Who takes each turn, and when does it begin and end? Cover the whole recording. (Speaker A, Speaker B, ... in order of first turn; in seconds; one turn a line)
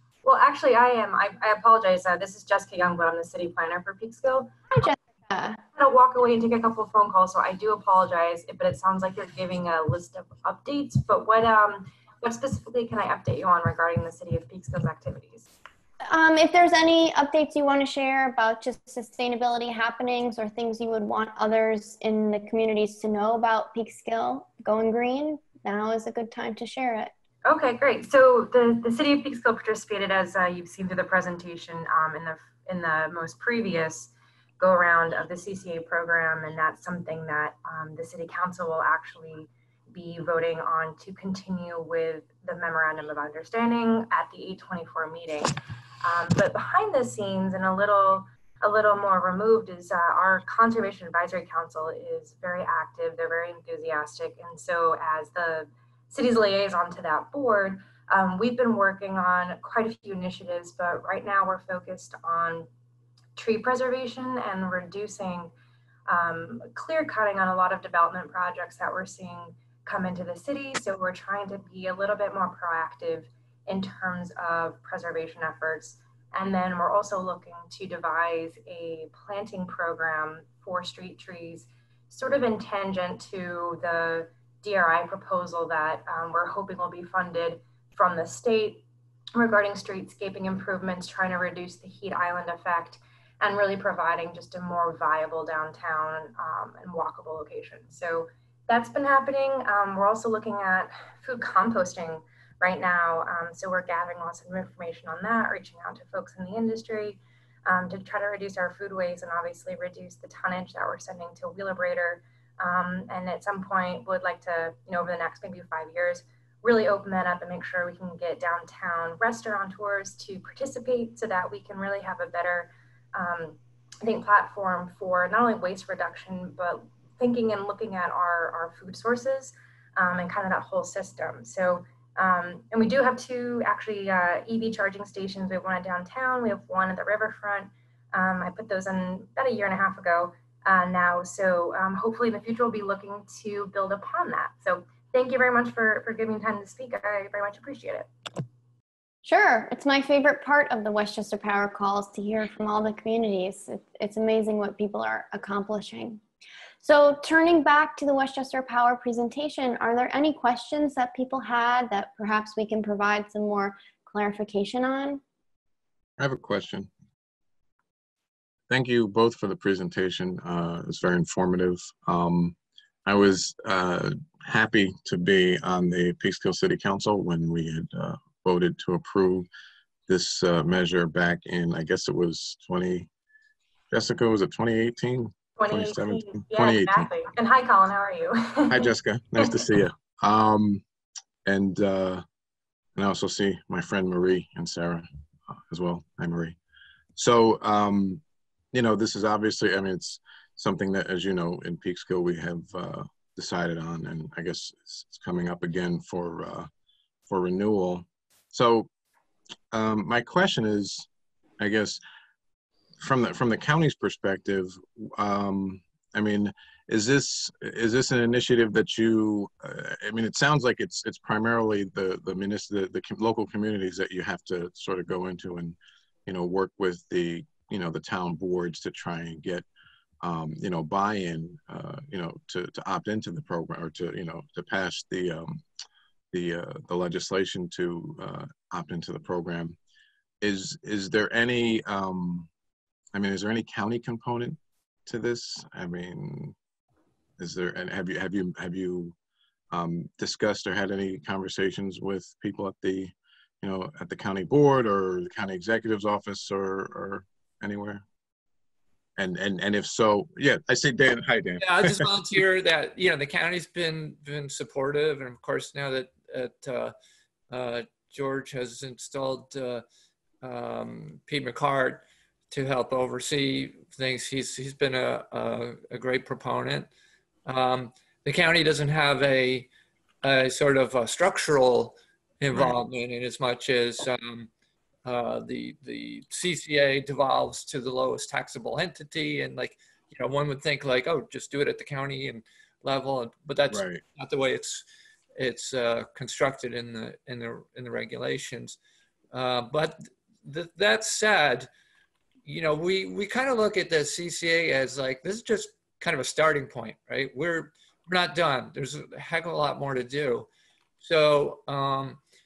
Speaker A: 0.2-4.6
Speaker B: 4.7-5.6
Speaker A: 5.8-15.5
Speaker B: 16.0-27.1
Speaker A: 27.4-62.7
Speaker A: 63.4-65.5
Speaker A: 66.0-88.8
Speaker A: 89.3-148.1
Speaker B: 149.2-156.2
Speaker B: 156.8-165.2
Speaker C: 166.2-166.9
Speaker C: 168.7-179.5
Speaker C: 180.1-183.1
Speaker C: 183.9-187.1
Speaker A: 185.6-189.6
Speaker C: 188.7-190.8
Speaker C: 191.4-192.2
Speaker C: 192.9-195.1
Speaker C: 195.7-196.6
Speaker C: 197.2-206.7
Speaker C: 207.3-208.9
Speaker C: 209.7-211.1
Speaker C: 211.6-212.0
Speaker C: 213.0-229.6
Speaker C: 230.2-235.6
Speaker C: 236.3-239.8
Speaker C: 240.4-242.5
Speaker C: 243.1-246.5
Speaker C: 247.4-249.1
Speaker C: 249.7-258.0
Speaker C: 259.2-262.1
Speaker D: 261.6-266.9
Speaker D: 267.5-269.8
Speaker D: 270.4-276.9
Speaker D: 277.4-279.7
Speaker D: 280.2-284.5
Speaker C: 282.5-282.8
Speaker D: 285.0-294.8
Speaker C: 293.7-294.0
Speaker D: 295.4-298.8
Speaker D: 299.3-301.7
Speaker D: 302.4-310.5
Speaker D: 311.0-312.2